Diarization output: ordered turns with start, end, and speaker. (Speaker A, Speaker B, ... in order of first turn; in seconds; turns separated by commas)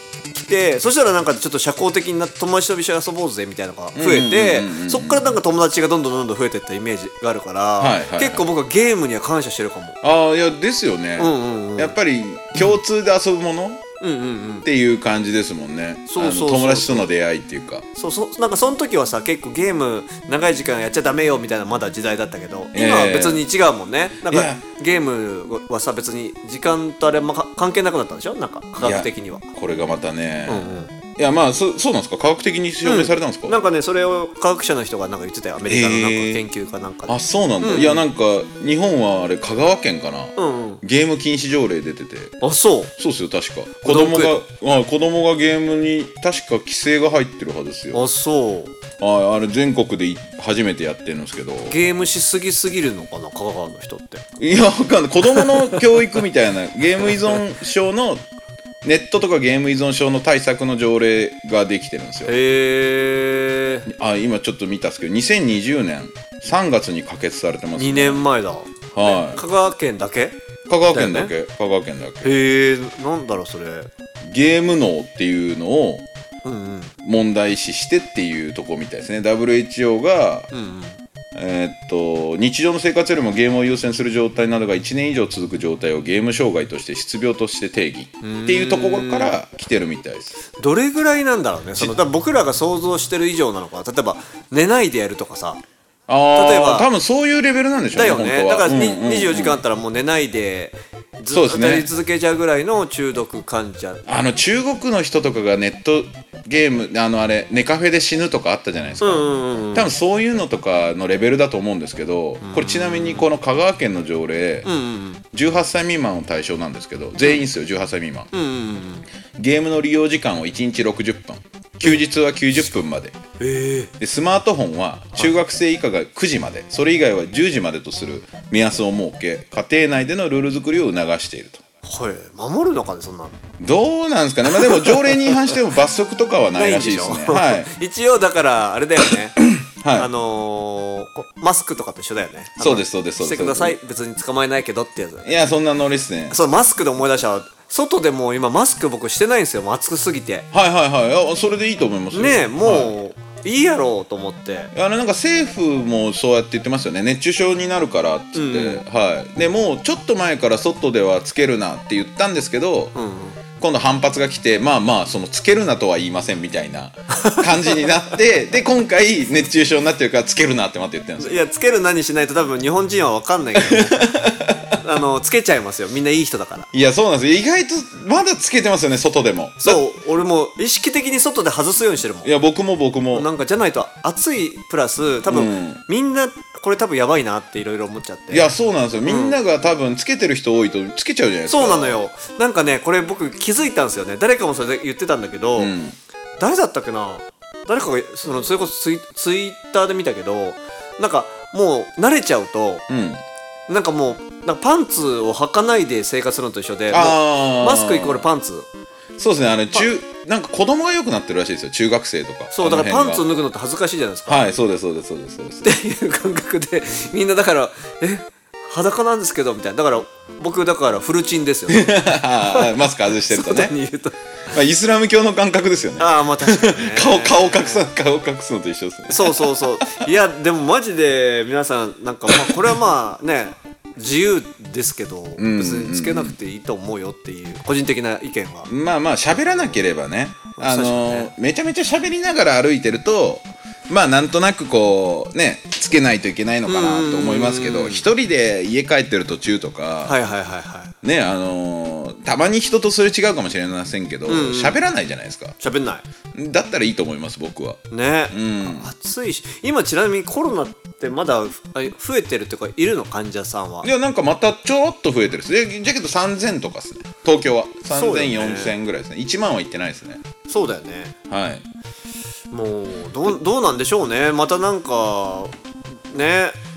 Speaker A: 0.3-10.0, Speaker B: 3.9-5.4, Speaker B: 7.8-8.5, Speaker B: 10.0-13.8, Speaker A: 11.2-11.9, Speaker A: 14.0-14.7, Speaker B: 14.6-17.8, Speaker A: 16.1-17.1, Speaker A: 17.9-29.5, Speaker B: 22.7-23.4, Speaker B: 24.3-24.6, Speaker B: 28.8-33.6, Speaker A: 30.5-30.9, Speaker A: 32.8-38.0, Speaker B: 35.7-36.4, Speaker B: 37.1-42.3, Speaker A: 40.4-40.8, Speaker A: 42.4-42.9, Speaker B: 43.0-48.0, Speaker A: 43.8-44.4, Speaker A: 47.9-48.7, Speaker B: 49.0-51.8, Speaker A: 51.7-54.2, Speaker B: 54.4-58.2, Speaker A: 55.3-56.0, Speaker B: 58.8-62.3, Speaker A: 62.2-63.9, Speaker B: 63.9-68.2, Speaker A: 67.8-70.4, Speaker B: 68.9-69.4, Speaker B: 70.7-72.3, Speaker A: 70.9-71.3, Speaker A: 72.2-73.9, Speaker B: 74.2-76.0, Speaker A: 76.4-76.9, Speaker B: 77.0-80.5, Speaker A: 80.5-81.0, Speaker B: 81.3-90.3, Speaker A: 88.2-89.3, Speaker A: 90.6-95.6, Speaker B: 96.1-99.6, Speaker A: 96.3-96.9, Speaker A: 97.9-104.0, Speaker B: 101.3-101.9, Speaker B: 104.1-114.7, Speaker A: 109.0-109.9, Speaker A: 112.4-113.3, Speaker A: 114.6-115.2, Speaker B: 115.3-118.3, Speaker A: 118.3-119.0, Speaker B: 119.4-123.2, Speaker A: 123.4-123.9, Speaker B: 124.0-131.6, Speaker A: 131.8-133.4, Speaker B: 133.6-137.7, Speaker A: 134.5-135.6, Speaker A: 136.5-139.4, Speaker B: 139.4-140.1, Speaker A: 139.9-145.3, Speaker B: 142.6-143.8, Speaker B: 145.2-146.4, Speaker A: 146.3-150.5, Speaker B: 150.5-152.9, Speaker A: 152.1-154.7, Speaker B: 154.7-162.9, Speaker A: 158.3-158.8, Speaker A: 162.9-163.4, Speaker B: 163.6-171.4, Speaker A: 167.2-167.8, Speaker A: 171.2-174.2, Speaker B: 173.6-174.7, Speaker A: 174.8-176.7, Speaker B: 176.7-179.8, Speaker A: 179.6-182.3, Speaker B: 182.2-183.3, Speaker A: 183.1-188.5, Speaker B: 185.3-185.8, Speaker B: 188.3-192.1, Speaker A: 189.0-189.4, Speaker A: 191.5-195.7, Speaker B: 195.6-196.0, Speaker A: 196.4-202.8, Speaker B: 202.9-203.2, Speaker A: 203.7-208.7, Speaker B: 206.9-208.2, Speaker B: 209.2-213.3, Speaker A: 212.5-214.5, Speaker B: 214.3-215.7, Speaker A: 215.6-224.2, Speaker B: 221.7-223.8, Speaker B: 224.5-230.1, Speaker A: 226.0-227.8, Speaker A: 229.1-238.7, Speaker B: 232.3-232.8, Speaker B: 235.4-236.4, Speaker B: 238.7-250.2, Speaker A: 240.6-241.3, Speaker A: 246.7-248.0, Speaker A: 250.0-250.9, Speaker B: 251.0-255.5, Speaker A: 254.3-254.8, Speaker A: 255.6-256.0, Speaker B: 256.3-257.8, Speaker A: 257.9-263.9, Speaker B: 258.3-258.9, Speaker B: 263.8-270.2, Speaker A: 267.9-268.7, Speaker A: 270.5-271.1, Speaker B: 271.3-271.6, Speaker A: 272.5-275.5, Speaker A: 276.1-276.6